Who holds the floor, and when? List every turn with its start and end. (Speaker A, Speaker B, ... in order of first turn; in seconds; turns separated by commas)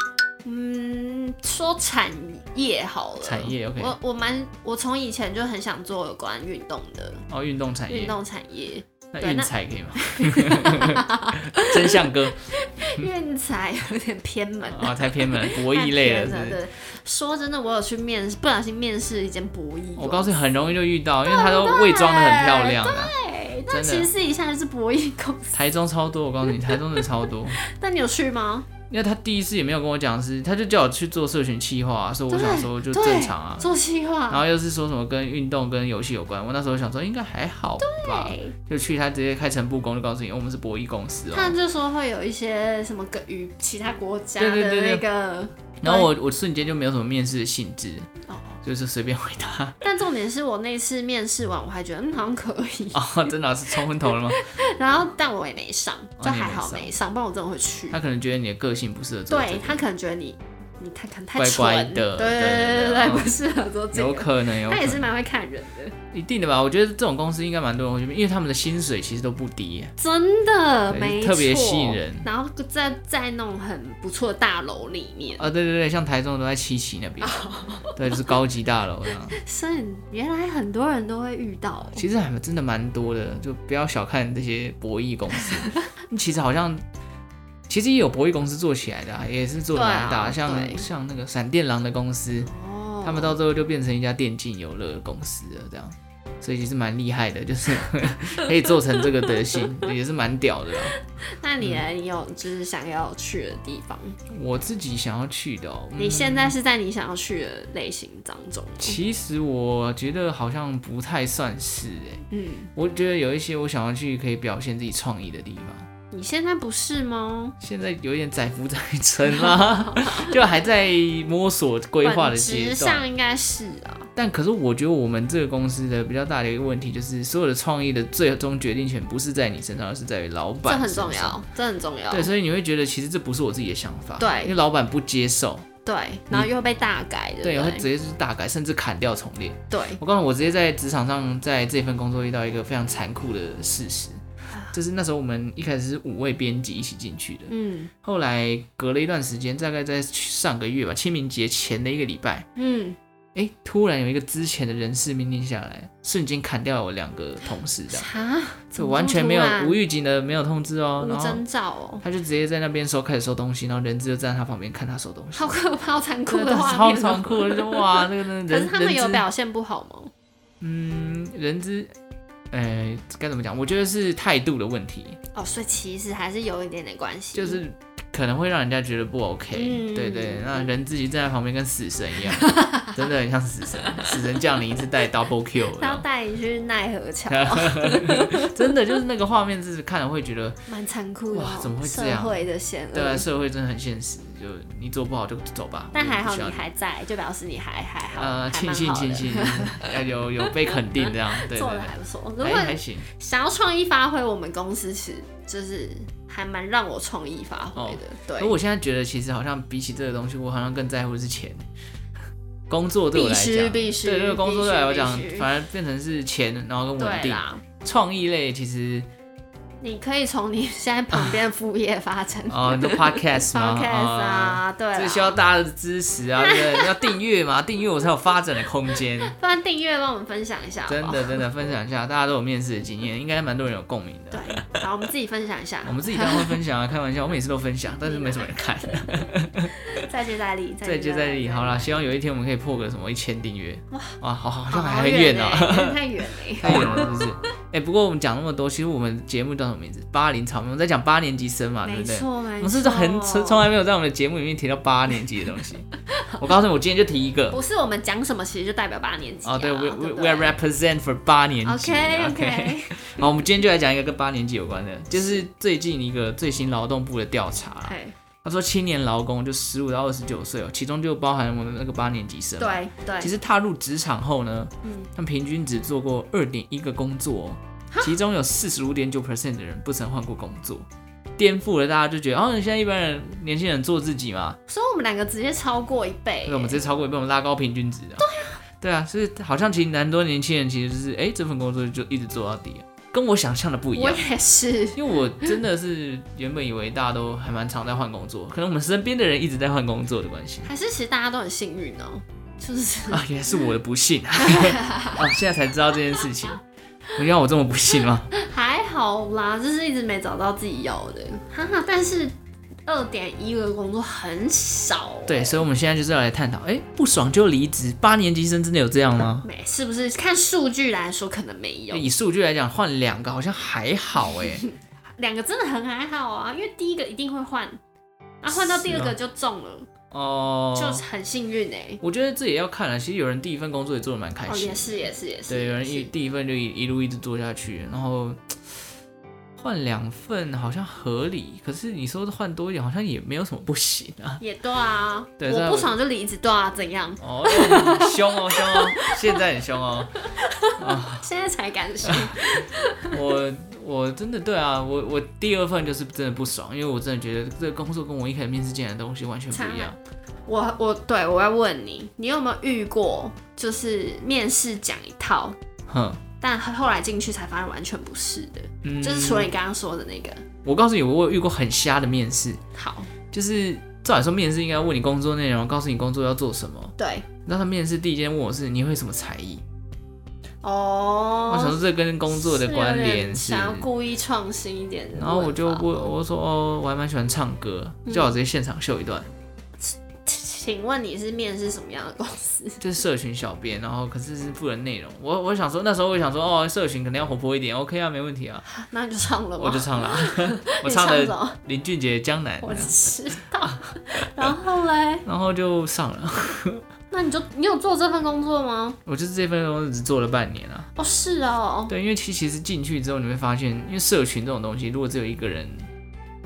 Speaker A: 0.4-7.2, Speaker B: 3.2-3.9, Speaker B: 7.3-8.2, Speaker A: 7.9-20.4, Speaker B: 9.1-13.0, Speaker B: 14.7-16.6, Speaker B: 19.9-23.1, Speaker A: 21.2-25.6, Speaker B: 23.7-24.1, Speaker B: 25.5-27.6, Speaker A: 26.5-28.7, Speaker B: 28.9-33.7, Speaker A: 32.3-34.4, Speaker B: 34.3-41.5, Speaker A: 37.8-38.5, Speaker A: 41.3-46.1, Speaker B: 44.4-45.0, Speaker B: 45.8-48.1, Speaker A: 48.3-48.6, Speaker B: 48.6-49.8, Speaker A: 49.8-53.3, Speaker B: 52.9-54.4, Speaker A: 53.8-58.0, Speaker B: 56.2-56.9, Speaker B: 57.9-59.8, Speaker A: 59.3-66.0, Speaker B: 61.3-63.3, Speaker B: 63.9-65.1, Speaker B: 66.1-69.9, Speaker A: 70.0-75.5, Speaker B: 70.9-72.3, Speaker B: 75.4-79.4, Speaker A: 77.2-78.3, Speaker A: 79.3-82.0, Speaker B: 81.9-86.8, Speaker B: 87.7-92.5, Speaker A: 89.7-90.8, Speaker A: 92.5-93.4, Speaker B: 93.0-101.0, Speaker A: 98.9-99.6, Speaker A: 100.9-104.2, Speaker B: 101.6-101.8, Speaker B: 104.3-106.5, Speaker A: 106.0-109.0, Speaker B: 108.8-112.2, Speaker A: 112.3-112.7, Speaker B: 112.7-115.9, Speaker A: 116.1-117.5, Speaker B: 117.6-123.0, Speaker A: 119.3-120.4, Speaker A: 122.0-124.1, Speaker B: 124.1-131.4, Speaker A: 130.6-132.3, Speaker B: 132.1-135.7, Speaker A: 134.2-134.5, Speaker A: 135.8-137.8, Speaker B: 137.4-152.5, Speaker A: 139.7-140.0, Speaker A: 147.5-147.9, Speaker A: 152.6-153.0, Speaker B: 153.3-158.1, Speaker A: 157.9-159.8, Speaker B: 158.8-161.4, Speaker A: 161.0-162.0, Speaker B: 162.0-165.6, Speaker A: 165.3-170.1, Speaker B: 166.3-169.2, Speaker B: 170.6-171.9, Speaker B: 172.5-175.2, Speaker A: 175.3-177.6, Speaker B: 177.3-186.0, Speaker A: 179.5-180.7, Speaker A: 182.3-183.0, Speaker A: 183.8-184.2, Speaker A: 185.7-188.6, Speaker B: 187.3-190.6, Speaker A: 190.7-193.2, Speaker B: 191.3-192.4, Speaker B: 192.9-196.7, Speaker A: 195.9-208.5, Speaker B: 198.2-203.1, Speaker B: 207.7-211.6, Speaker B: 212.7-219.1, Speaker A: 213.1-215.5, Speaker A: 217.0-217.6, Speaker A: 219.8-225.4, Speaker B: 221.1-221.4, Speaker B: 222.5-229.3, Speaker A: 226.4-227.1, Speaker A: 228.9-231.4, Speaker B: 230.9-234.8, Speaker A: 234.3-236.6, Speaker B: 235.8-240.1, Speaker A: 238.0-239.0, Speaker A: 239.9-242.1, Speaker B: 240.8-257.6, Speaker A: 243.9-244.2, Speaker A: 244.7-247.3, Speaker A: 251.8-253.7, Speaker A: 256.1-256.4, Speaker A: 257.5-260.6, Speaker B: 259.4-284.6, Speaker A: 261.6-263.3, Speaker A: 265.1-265.4, Speaker A: 267.8-268.1, Speaker A: 272.6-273.3, Speaker A: 274.8-275.1, Speaker A: 277.9-278.1, Speaker A: 284.7-286.8, Speaker B: 286.4-294.2, Speaker A: 288.2-288.6, Speaker A: 293.9-295.5, Speaker B: 294.9-300.7, Speaker A: 300.6-303.2, Speaker B: 303.1-306.6, Speaker A: 304.4-305.3, Speaker B: 307.1-308.3, Speaker A: 308.3-312.3, Speaker A: 312.9-315.6, Speaker B: 315.2-319.5, Speaker A: 319.4-322.1, Speaker B: 321.9-324.7, Speaker A: 324.3-327.8, Speaker A: 328.4-329.9, Speaker B: 328.5-329.1, Speaker B: 330.1-331.0, Speaker A: 330.7-332.0, Speaker B: 332.0-338.8, Speaker A: 334.5-336.1, Speaker B: 339.6-344.4, Speaker A: 344.4-349.4, Speaker B: 345.4-345.9, Speaker B: 347.2-351.2, Speaker A: 350.2-353.2, Speaker B: 352.0-352.5, Speaker B: 353.1-360.0, Speaker A: 359.5-365.6, Speaker B: 365.9-366.2, Speaker A: 366.4-370.4, Speaker B: 368.8-369.5, Speaker B: 370.6-372.6, Speaker A: 372.7-373.1, Speaker B: 373.3-379.6, Speaker A: 377.0-377.3, Speaker A: 380.6-386.1, Speaker B: 381.5-383.9, Speaker B: 385.1-389.3, Speaker A: 388.1-388.3, Speaker A: 389.8-392.8, Speaker B: 392.8-398.6, Speaker A: 398.7-401.6, Speaker B: 399.6-403.0, Speaker A: 402.6-405.2, Speaker B: 403.6-404.5, Speaker B: 405.2-406.9, Speaker A: 407.1-409.0, Speaker B: 409.1-410.9, Speaker A: 410.9-411.9, Speaker B: 411.9-415.9